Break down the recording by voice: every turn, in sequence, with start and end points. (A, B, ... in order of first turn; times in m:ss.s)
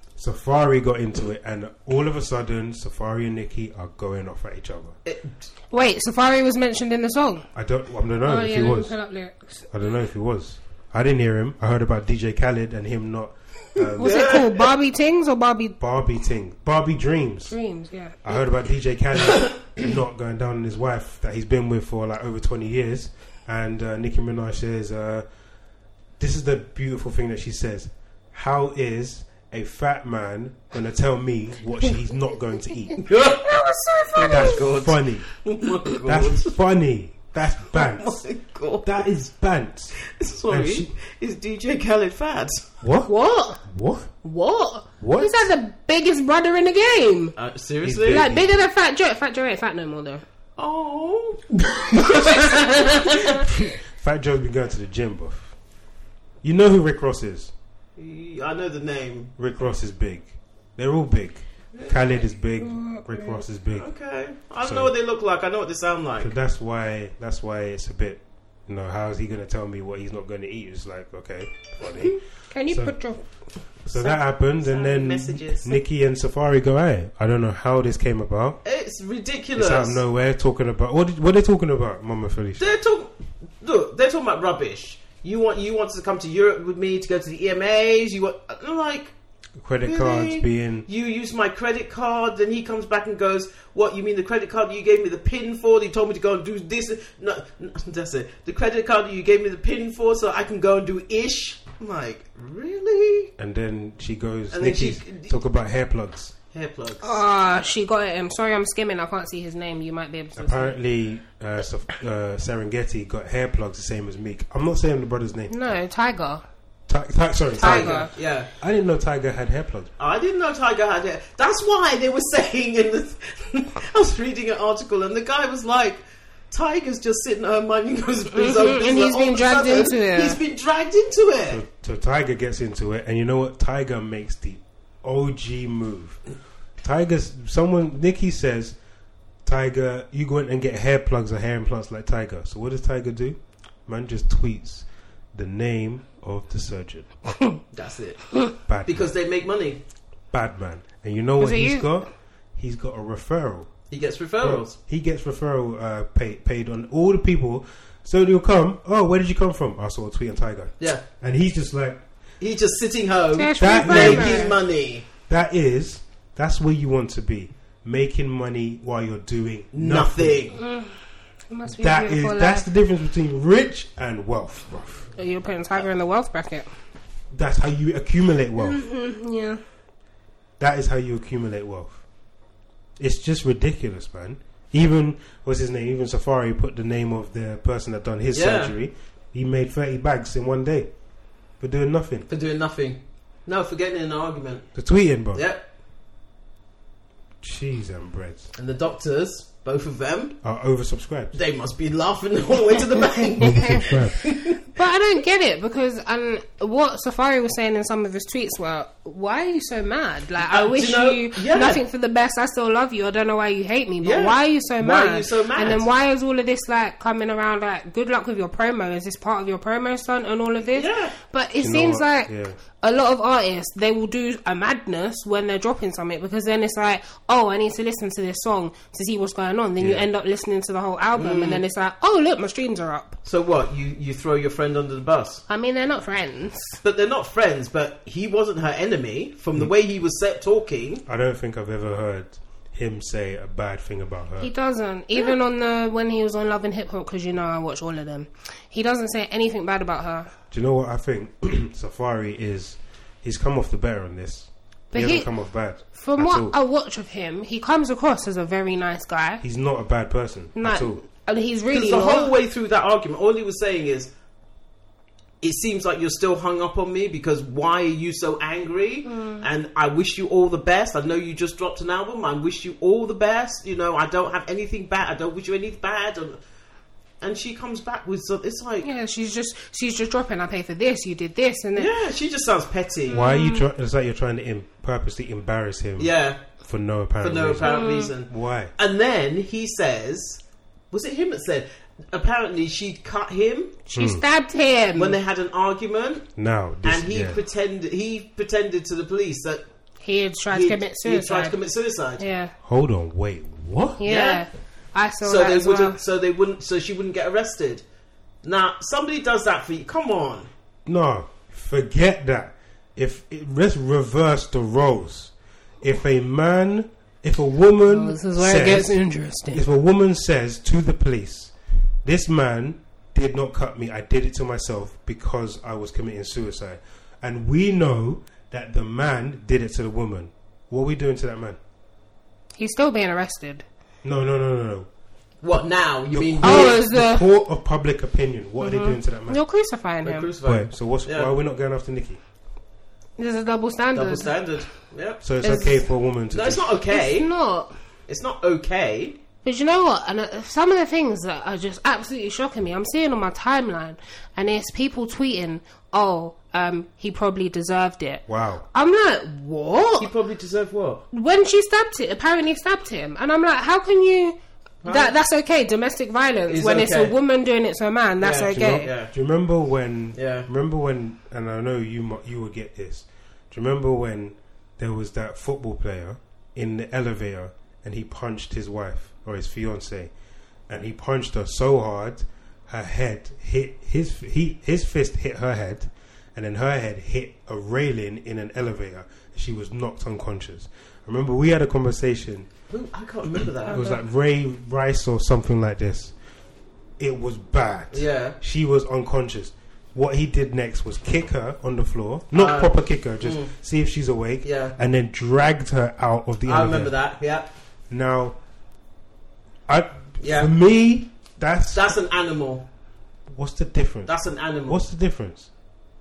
0:00.2-0:05.0 A
0:05.0-0:05.4 B
0:05.7-0:07.4 C
0:07.5-0:08.9 A
0:08.2-0:09.6 C
0:09.7-0:14.3 A
0:14.0-0:14.6 B
0:14.0-0:15.8 C
0:15.8-0:17.6 A
0:17.5-0:18.2 C
0:18.2-0:25.2 A
0:26.2-0:33.0 A
0:33.0-0:33.6 B
0:33.2-0:34.6 C
0:34.1-0:36.5 B
0:34.2-0:35.3 A
0:36.0-0:38.2 A
0:37.7-0:38.9 B
0:38.8-0:40.9 A
0:40.0-0:42.6 B
0:42.8-0:43.1 A
0:43.0-0:43.6 C
0:43.6-0:44.1 A
0:44.2-0:47.3 C
0:45.0-0:45.5 A
0:47.4-0:48.2 B
0:47.8-0:48.6 A
0:48.0-0:50.2 C
0:50.6-0:52.6 B
0:51.9-0:53.4 C
0:53.5-0:55.5 A
0:56.4-0:57.5 A
0:58.0-0:59.3 B
0:59.4-1:03.9 A
1:02.6-1:03.4 C
1:03.7-1:06.3 B
1:04.6-1:04.9 A
1:06.2-1:12.9 A
1:12.5-1:13.2 C
1:13.8-1:18.6 A
1:13.9-1:15.7 B
1:18.6-1:20.0 B
1:19.6-1:22.7 A
1:22.6-1:29.1 B
1:29.6-1:30.8 A
1:29.8-1:43.3 B
1:43.4-1:46.3 A
1:44.5-1:45.4 B
1:46.5-1:47.2 B
1:47.0-1:50.8 C
1:50.4-1:55.7 A
1:55.5-1:56.4 C
1:56.9-1:59.9 A
1:57.6-1:58.1 C
1:57.6-1:58.5 B
2:00.0-2:11.6 B
2:08.3-2:10.4 C
2:11.5-2:16.2 A
2:16.8-2:18.8 A
2:19.4-2:27.1 A
2:27.7-2:29.8 B
2:28.7-2:29.1 A
2:30.3-2:33.7 A
2:31.4-2:31.9 C
2:33.9-2:34.8 B
2:34.4-2:42.0 A
2:42.4-2:45.1 B
2:43.4-2:44.5 C
2:43.6-2:44.6 A
2:45.3-2:50.5 A
2:49.7-2:50.6 B
2:50.5-2:51.0 C
2:51.5-2:52.6 C
2:51.7-2:55.1 A
2:55.2-2:56.7 C
2:57.3-2:58.8 A
2:58.6-2:59.6 C
3:00.6-3:02.0 A
3:03.0-3:10.9 A
3:08.3-3:08.7 B
3:11.6-3:12.3 A
3:12.3-3:14.8 B
3:14.7-3:15.4 A
3:15.3-3:15.6 B
3:17.4-3:18.5 A
3:18.6-3:20.4 B
3:20.4-3:21.4 A
3:21.3-3:24.6 B
3:23.4-3:24.2 A
3:23.4-3:53.2 C
3:30.4-3:31.8 B
3:34.0-3:35.9 B
3:40.7-3:41.2 B
3:41.6-3:42.6 A
3:49.8-3:50.0 A
3:51.2-3:51.6 B
3:53.2-3:55.4 B
3:55.5-3:56.8 C
3:56.8-4:01.0 B
4:01.0-4:04.5 A
4:04.4-4:10.3 C
4:10.5-4:16.5 A
4:14.9-4:15.3 C
4:15.9-4:19.4 C
4:19.4-4:21.0 A
4:20.6-4:22.3 C
4:21.7-4:24.1 B
4:25.4-4:36.4 B
4:29.0-4:29.4 C
4:37.2-4:38.9 B
4:38.8-4:41.9 C
4:41.8-4:43.2 B
4:43.1-4:48.7 A
4:43.1-4:43.6 C
4:46.0-4:46.5 B
4:47.2-4:53.8 B
4:47.6-4:48.1 C
4:53.9-4:55.2 C
4:53.9-4:54.2 A
4:55.0-4:56.3 B
4:56.4-4:57.4 A
4:56.8-4:59.6 B
5:00.0-5:01.6 C
5:00.5-5:02.2 B
5:02.2-5:02.5 C
5:02.6-5:04.0 A
5:04.0-5:06.0 C
5:04.0-5:04.4 B
5:05.2-5:07.8 B
5:08.4-5:10.5 B
5:10.8-5:21.5 A
5:17.8-5:19.6 C
5:22.0-5:31.6 A
5:32.6-5:33.6 C
5:34.0-5:34.9 A
5:35.4-5:36.8 B
5:36.1-5:39.4 A
5:36.4-5:37.3 C
5:38.6-5:40.3 C
5:40.0-5:41.3 B
5:40.4-5:42.2 A
5:43.2-5:44.3 C
5:43.9-5:45.2 B
5:45.2-5:46.7 A
5:45.4-5:45.8 C
5:46.3-5:47.3 B
5:46.9-5:47.7 C
5:48.1-5:49.2 B
5:49.4-6:00.1 C
5:58.3-5:58.6 A
6:00.0-6:01.0 B
6:01.1-6:08.9 C
6:04.8-6:05.1 B
6:06.5-6:07.1 B
6:08.2-6:09.1 B
6:08.5-6:20.1 A
6:10.1-6:10.5 B
6:20.7-6:32.5 A
6:32.7-6:33.8 B
6:33.7-6:36.1 A
6:33.7-6:34.0 C
6:37.0-6:46.9 A
6:37.9-6:38.4 B
6:42.3-6:43.5 B
6:44.4-6:44.8 B
6:46.4-6:47.5 B
6:47.9-6:48.4 A
6:49.7-6:51.9 A
6:50.2-6:50.5 B
6:51.7-6:52.6 B
6:53.3-6:54.1 A
6:54.0-6:54.8 B
6:54.6-6:55.5 A